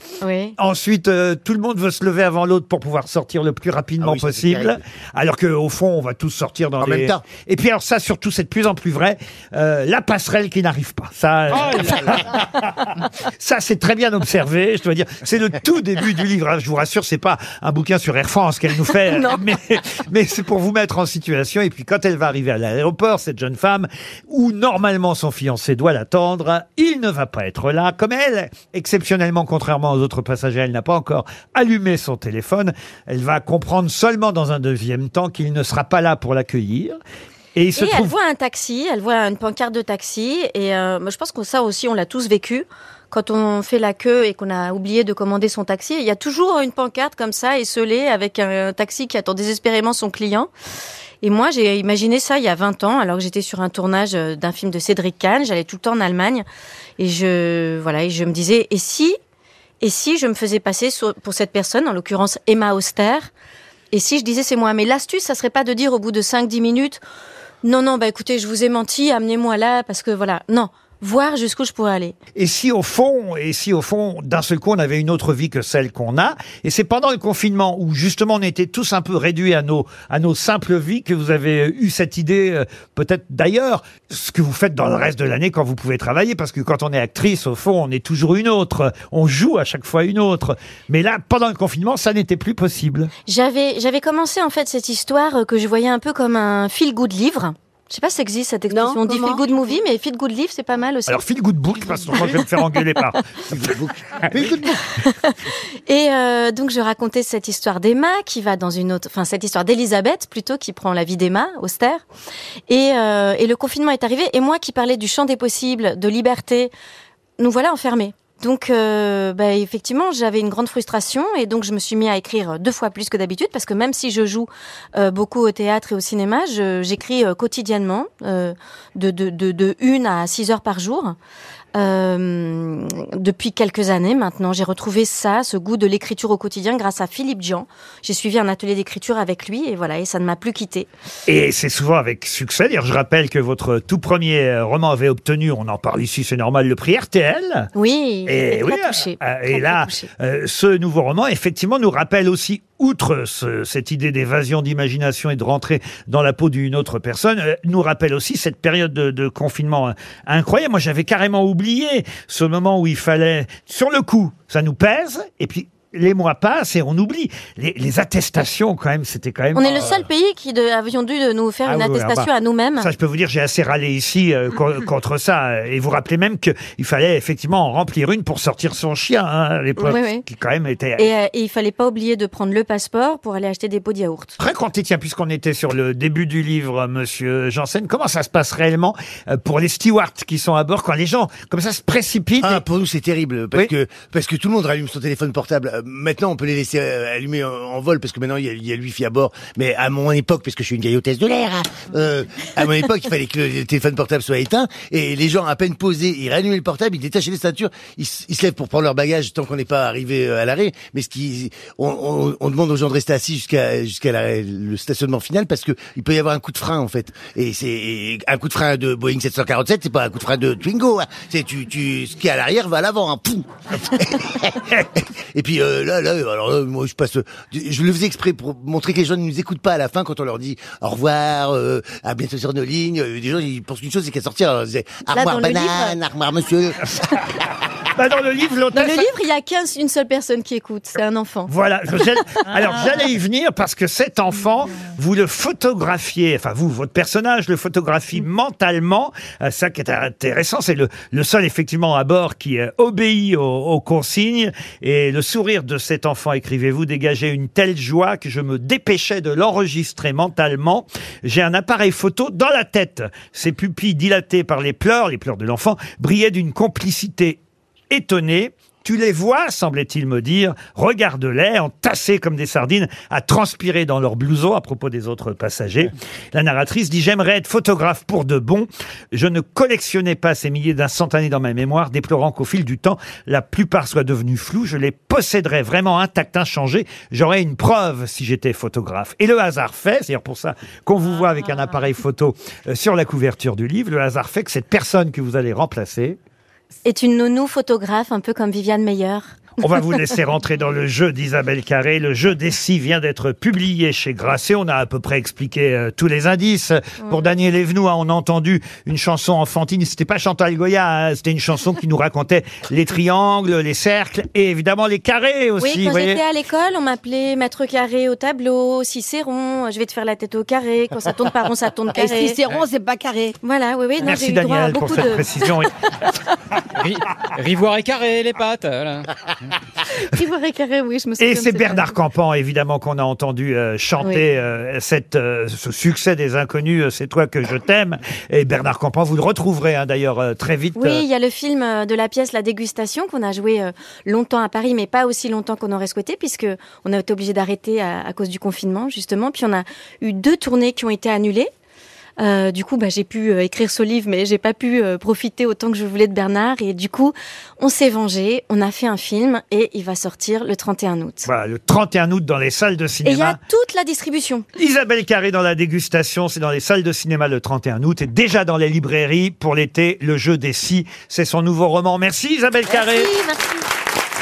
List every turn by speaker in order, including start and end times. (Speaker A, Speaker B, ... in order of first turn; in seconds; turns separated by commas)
Speaker A: 0.2-0.6, Speaker B: 0.6-37.0, Speaker C: 4.0-4.8, Speaker C: 6.8-7.2, Speaker D: 11.5-12.1, Speaker A: 19.1-19.4, Speaker B: 37.5-38.1, Speaker A: 37.8-50.5, Speaker A: 51.2-56.5, Speaker A: 57.0-59.2, Speaker A: 59.8-63.3, Speaker A: 63.9-67.0, Speaker A: 67.6-72.2, Speaker B: 72.4-93.1, Speaker A: 93.3-101.2, Speaker E: 98.7-99.4, Speaker B: 101.1-103.2, Speaker C: 103.5-104.9, Speaker A: 105.0-105.3, Speaker A: 105.9-112.0, Speaker A: 112.7-116.7, Speaker A: 117.4-131.2, Speaker A: 131.8-140.9, Speaker B: 141.3-147.7, Speaker A: 147.8-150.1, Speaker B: 148.3-170.1, Speaker A: 169.6-172.9, Speaker B: 171.7-181.1, Speaker A: 179.8-180.2, Speaker A: 181.0-184.4, Speaker B: 184.4-192.6, Speaker C: 192.4-236.8, Speaker A: 235.1-236.0, Speaker B: 238.0-239.1, Speaker A: 238.7-241.5, Speaker B: 241.5-296.2, Speaker A: 296.9-299.4, Speaker B: 299.6-316.2, Speaker A: 315.6-322.4, Speaker E: 321.9-323.4, Speaker A: 323.4-325.5, Speaker B: 324.0-325.7, Speaker D: 326.8-329.1, Speaker A: 330.0-332.0, Speaker B: 331.2-341.1, Speaker A: 340.8-351.5, Speaker A: 352.2-361.3, Speaker B: 361.2-363.4, Speaker A: 363.0-364.5, Speaker B: 364.6-373.1, Speaker A: 372.7-373.6